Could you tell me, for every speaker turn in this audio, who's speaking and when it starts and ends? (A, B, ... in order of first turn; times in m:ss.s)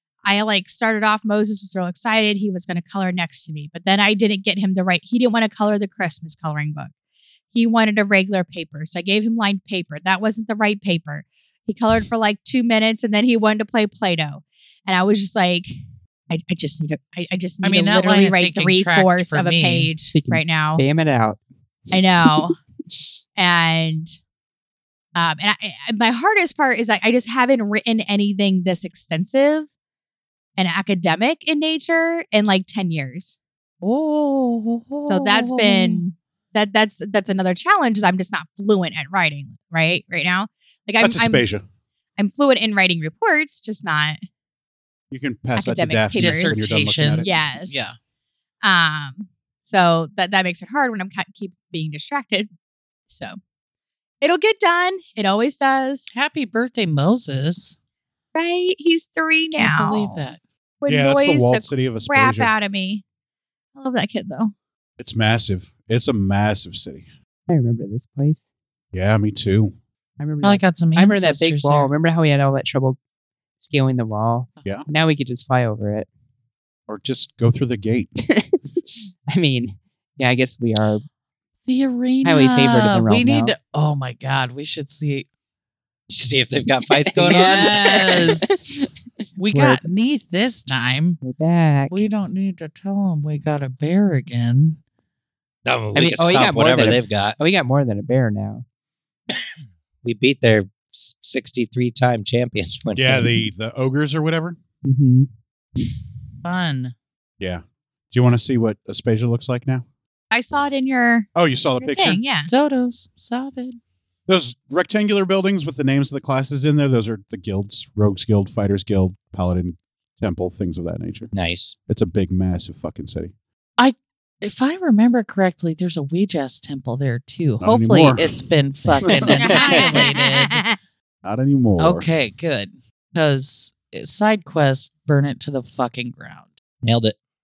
0:00.2-0:06.9 A
0:07.5-0:20.8 A
0:17.6-0:20.0 B
0:20.0-0:21.4 C
0:21.9-0:22.5 A
0:22.2-0:22.5 C
0:23.4-0:24.1 A
0:25.2-0:29.7 A
0:30.6-0:33.4 A
0:33.8-0:36.1 B
0:35.1-0:41.4 A
0:41.0-0:41.6 D
0:42.2-0:44.2 A
0:45.1-0:47.4 D
0:45.6-0:46.6 A
0:46.2-0:48.0 B
0:47.2-0:47.9 A
0:48.6-0:52.5 A
0:53.1-0:53.4 A
0:54.2-0:56.1 A
0:56.1-0:57.8 B
0:58.3-1:00.2 A
0:59.5-1:00.4 B
1:00.8-1:03.0 A
1:00.9-1:02.5 D
1:03.8-1:04.5 A
1:05.0-1:07.1 D
1:07.5-1:08.5 C
1:08.9-1:09.8 D
1:10.2-1:13.0 C
1:10.4-1:11.9 B
1:13.6-1:16.1 C
1:14.6-1:14.8 B
1:16.9-1:18.1 D
1:18.2-1:21.0 C
1:21.7-1:25.3 B
1:22.2-1:23.6 C
1:26.1-1:27.8 E
1:27.2-1:28.8 B
1:27.3-1:28.9 C
1:29.4-1:31.2 B
1:29.4-1:29.8 C
1:31.2-1:32.0 C
1:31.9-1:34.8 B
1:35.6-1:37.4 E
1:35.9-1:38.6 C
1:40.0-1:43.3 E
1:43.0-1:44.6 D
1:44.8-1:45.3 C
1:46.4-1:46.9 B
1:47.4-1:49.8 D
1:50.3-1:51.3 A
1:51.4-1:52.2 D
1:51.8-1:52.5 A
1:52.5-1:53.8 B
1:54.3-2:01.3 D
2:01.3-2:01.8 E
2:01.9-2:03.3 D
2:03.8-2:10.6 B
2:07.6-2:08.4 D
2:09.0-2:10.0 E
2:09.3-2:10.8 A
2:11.2-2:12.1 D
2:11.8-2:16.6 B
2:16.8-2:17.2 E